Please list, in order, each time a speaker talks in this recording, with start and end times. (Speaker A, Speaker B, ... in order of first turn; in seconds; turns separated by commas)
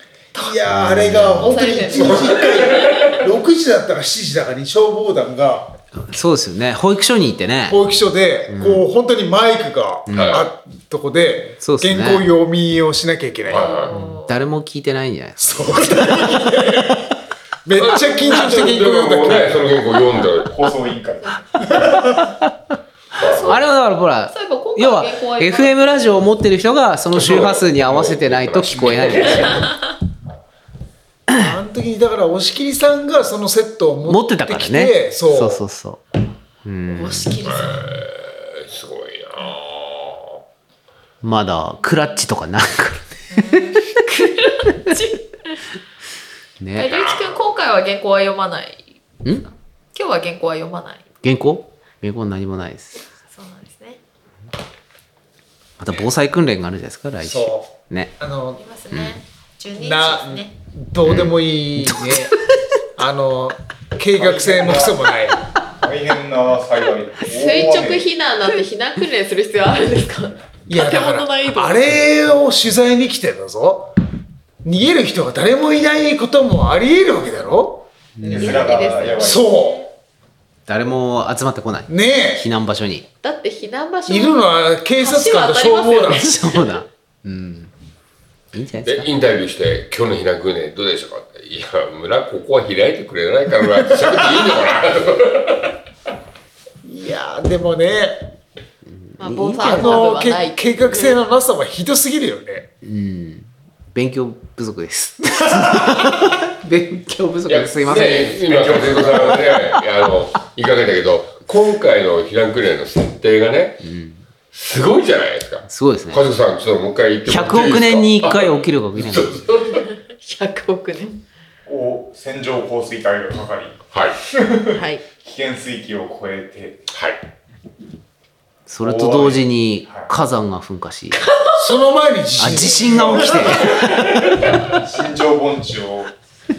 Speaker A: 0.3-0.7, Speaker B: 0.3-5.7, Speaker C: 0.7-1.6, Speaker A: 1.3-3.1, Speaker D: 1.9-3.2, Speaker C: 6.0-7.8, Speaker B: 7.7-13.7, Speaker C: 8.5-8.9, Speaker C: 10.1-10.4, Speaker D: 10.1-10.5, Speaker C: 11.6-12.3, Speaker D: 13.5-13.9, Speaker A: 13.5-14.4, Speaker C: 13.9-16.6, Speaker B: 15.4-19.7, Speaker D: 17.7-20.5, Speaker E: 20.4-22.2, Speaker A: 21.2-21.8, Speaker C: 22.2-22.5, Speaker A: 23.2-23.7, Speaker D: 23.2-23.6, Speaker C: 23.3-29.7, Speaker A: 24.2-26.3, Speaker D: 27.1-29.7, Speaker A: 29.5-29.7, Speaker B: 31.3-35.6, Speaker C: 34.1-36.0, Speaker C: 36.6-37.4, Speaker A: 36.9-37.9, Speaker D: 37.4-40.4, Speaker C: 41.2-44.1, Speaker A: 41.9-42.2, Speaker A: 43.3-45.6, Speaker C: 46.6-46.9, Speaker A: 46.8-51.1, Speaker D: 46.8-47.5, Speaker C: 51.2-53.0, Speaker A: 53.2-54.0, Speaker C: 55.8-58.1, Speaker B: 57.2-58.6, Speaker A: 58.6-60.5, Speaker B: 59.8-62.3, Speaker C: 61.0-62.6, Speaker B: 63.0-65.4, Speaker E: 64.2-65.1, Speaker E: 65.7-68.1, Speaker A: 67.2-72.0, Speaker B: 70.7-73.9, Speaker B: 74.6-79.8, Speaker C: 78.2-79.1, Speaker E: 78.3-79.5, Speaker A: 78.3-79.9, Speaker C: 80.7-83.1, Speaker B: 81.9-82.5, Speaker A: 83.2-86.8, Speaker B: 84.1-86.3, Speaker C: 86.1-87.7, Speaker C: 88.5-89.1, Speaker D: 88.8-95.8, Speaker B: 96.8-98.3, Speaker C: 98.9-100.1, Speaker A: 99.2-101.2, Speaker B: 99.6-102.7, Speaker C: 102.8-109.2, Speaker D: 107.5-113.9, Speaker E: 108.4-109.6, Speaker C: 113.8-114.2, Speaker D: 114.5-119.9, Speaker C: 115.7-116.2, Speaker C: 117.3-119.4, Speaker A: 119.9-121.2, Speaker E: 121.7-126.8, Speaker D: 123.9-124.2, Speaker A: 124.7-125.0, Speaker D: 126.9-127.2, Speaker C: 128.7-131.2, Speaker E: 128.8-130.1, Speaker A: 131.1-131.7, Speaker B: 131.6-133.7, Speaker C: 132.4-133.7, Speaker E: 132.5-136.1